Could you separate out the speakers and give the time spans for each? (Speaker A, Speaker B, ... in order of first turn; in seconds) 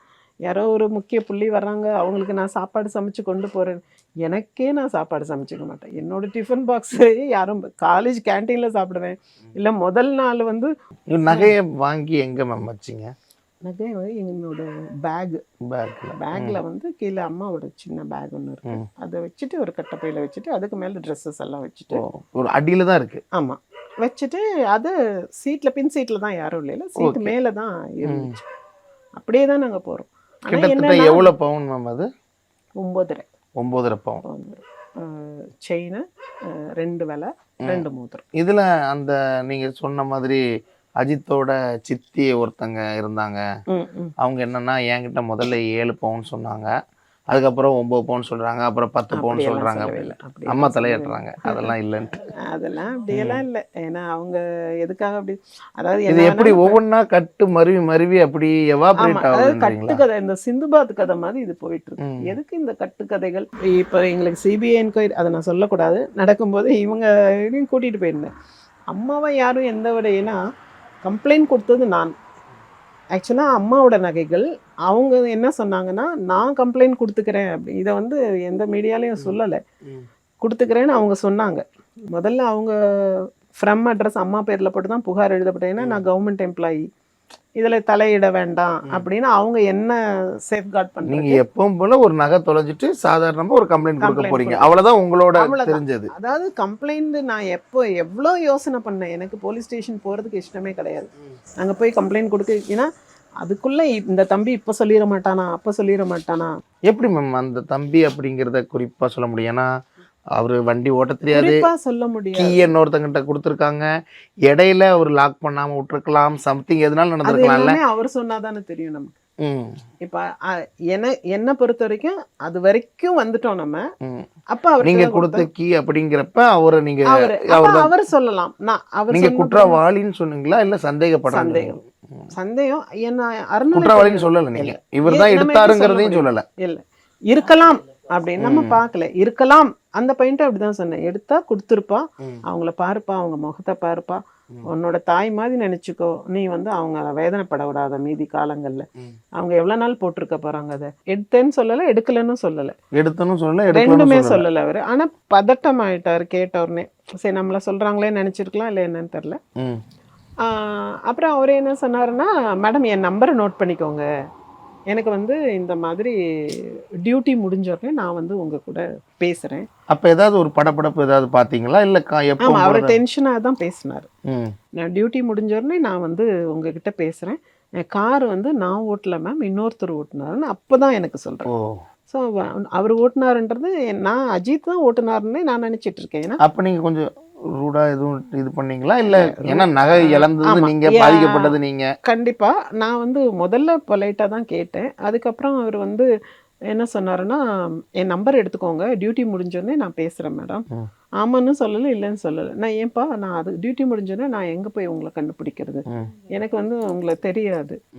Speaker A: 0.4-10.7, 11.3-11.5, 13.6-15.4, 16.2-22.0, 23.3-28.4, 29.2-31.3, 32.8-33.2, 34.2-38.2, 43.7-44.1, 49.1-51.7, 52.5-56.8, 59.0-68.3, 68.9-70.4, 71.0-72.1, 73.1-79.6, 80.4-86.8, 87.6-91.4, 94.0-94.7, 95.4-102.9, 103.4-106.5, 111.3-112.7, 117.2-119.1, 120.0-123.8, 124.5-125.5, 127.1-129.8, 131.3-131.8, 132.3-152.7, 153.7-159.4, 160.4-164.1, 164.9-169.7, 172.4-174.1, 174.8-181.5, 182.1-186.4, 189.0-196.1, 196.7-197.4, 198.0-200.6, 201.2-207.8
Speaker B: 11.1-13.1, 15.7-16.6, 21.9-23.2, 27.0-27.3, 28.1-28.3, 30.5-32.1, 33.6-34.2, 38.3-40.4, 41.0-43.4, 44.2-46.7, 47.3-52.1, 53.1-53.4, 56.1-60.0, 62.0-62.3, 85.8-86.0, 91.1-96.1, 106.9-109.7, 110.3-111.6, 112.3-113.8, 114.5-117.8, 119.4-119.8, 124.8-127.9, 129.1-132.2, 133.7-136.4, 138.4-138.8, 152.9-154.5, 169.9-173.0, 174.3-174.5, 181.5-181.8, 186.4-187.1, 187.6-191.9